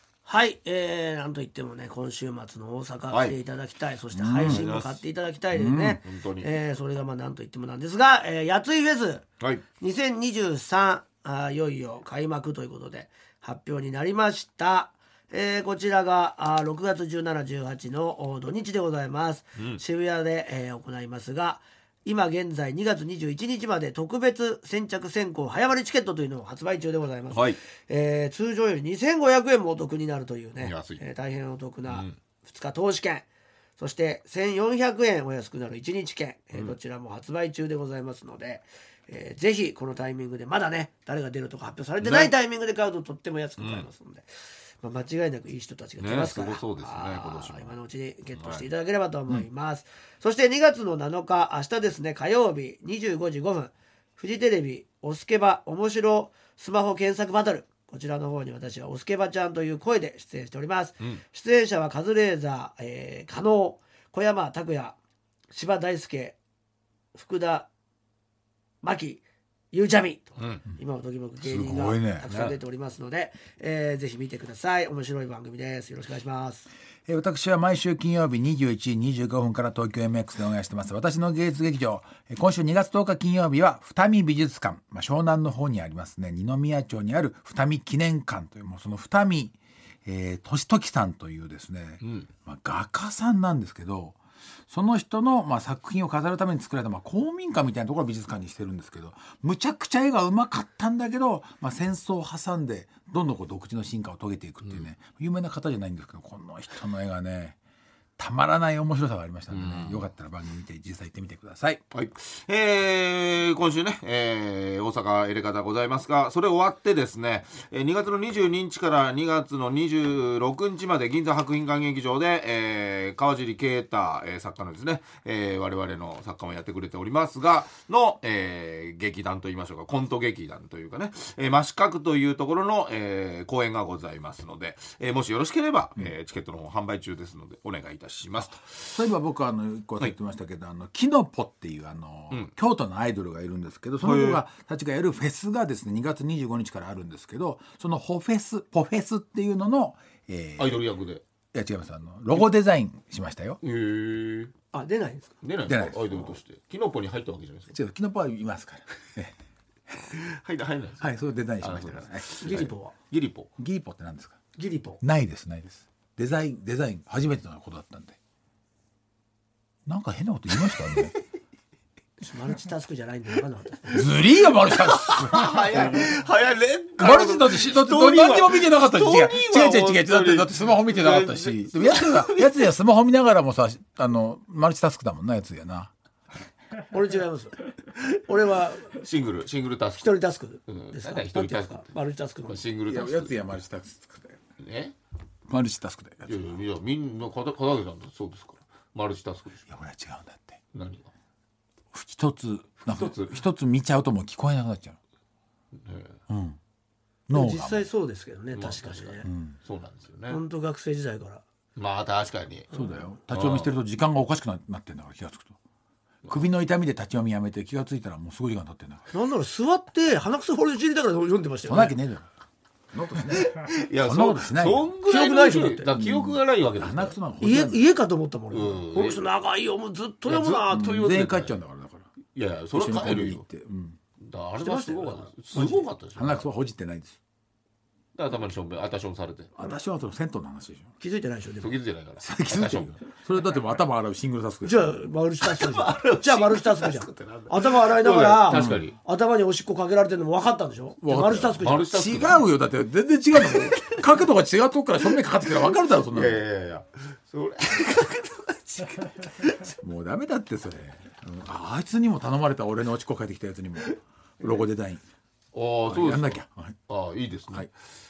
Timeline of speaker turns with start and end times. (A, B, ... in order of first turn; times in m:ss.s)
0:00.2-0:09.2 A
0:03.1-0:03.4 B
0:04.1-0:04.7 C
0:04.4-0:05.0 B
0:05.5-0:06.0 C
0:06.0-0:06.5 B
0:09.8-0:33.3 A
0:19.6-0:19.8 B
0:27.3-0:27.6 B
0:30.6-0:31.0 B
0:31.8-0:32.2 B
0:33.8-1:05.0 A
0:42.0-0:42.3 B
0:43.6-0:43.9 B
0:46.0-0:47.8 B
0:48.3-0:48.7 B
1:05.5-1:06.4 A
1:07.2-1:07.7 A
1:08.8-1:16.7 A
1:10.4-1:10.6 B
1:11.4-1:12.3 C
1:12.3-1:12.6 B
1:17.1-1:34.2 C
1:32.0-1:32.3 B
1:34.7-1:47.6 C
1:48.2-1:51.8 C
1:49.5-1:50.1 B
1:51.9-2:19.1 B
2:18.8-2:30.8 C
2:24.0-2:24.4 B
2:30.6-2:31.2 B
2:31.5-2:33.6 C
2:33.6-2:34.5 B
2:34.7-2:35.4 A
2:35.4-2:37.8 B
2:35.6-2:36.4 C
2:37.7-2:39.4 C
2:40.1-2:43.5 B
2:41.0-2:42.7 C
2:42.4-2:42.9 A
2:43.6-2:44.4 C
2:44.6-2:45.0 A
2:45.0-2:48.2 C
2:49.9-2:51.2 C
2:52.2-2:54.2 A
2:53.9-2:56.1 C
2:54.6-3:02.7 B
2:57.0-3:05.9 C
3:06.9-3:07.6 A
3:08.2-3:09.0 A
3:08.9-3:11.9 B
3:10.0-3:12.6 A
3:12.4-3:13.6 B
3:12.9-3:14.4 C
3:14.6-3:15.0 B
3:15.5-3:16.6 C
3:16.3-3:19.7 B
3:19.7-3:20.6 C
3:20.7-3:21.1 B
3:21.9-3:25.0 C
3:22.9-3:23.4 B
3:25.8-3:26.2 B
3:26.3-3:26.6 C
3:27.3-3:27.9 C
3:27.3-3:29.3 A
3:28.5-3:30.4 B
3:29.2-3:29.6 C
3:30.3-3:31.4 A
3:31.8-3:32.7 B
3:32.7-3:35.6 C
3:33.3-3:33.8 B
3:36.3-3:39.1 C
3:39.1-3:42.0 A
3:41.6-3:42.3 C
3:42.9-3:44.9 C
3:43.3-3:47.2 B
3:45.1-3:45.9 A
3:45.9-3:47.9 C
3:47.4-3:51.1 A
3:48.5-3:49.2 B
3:50.2-3:51.6 B
3:50.7-3:52.1 C
3:52.4-3:53.4 B
3:52.7-3:54.0 C
3:54.2-3:56.5 B
3:54.6-3:55.9 A
3:56.1-3:57.2 C
3:58.2-3:59.5 B
3:59.6-4:00.9 C
4:01.0-4:01.8 A
4:01.6-4:03.0 B
4:02.2-4:05.1 C
4:04.6-4:11.9 A
4:05.4-4:09.0 B
4:08.5-4:08.8 C
4:11.0-4:16.4 C
4:11.6-4:12.5 B
4:13.4-4:14.0 B
4:15.1-4:19.8 B
4:19.8-4:25.0 C
4:25.5-4:27.7 B
4:25.9-4:26.8 C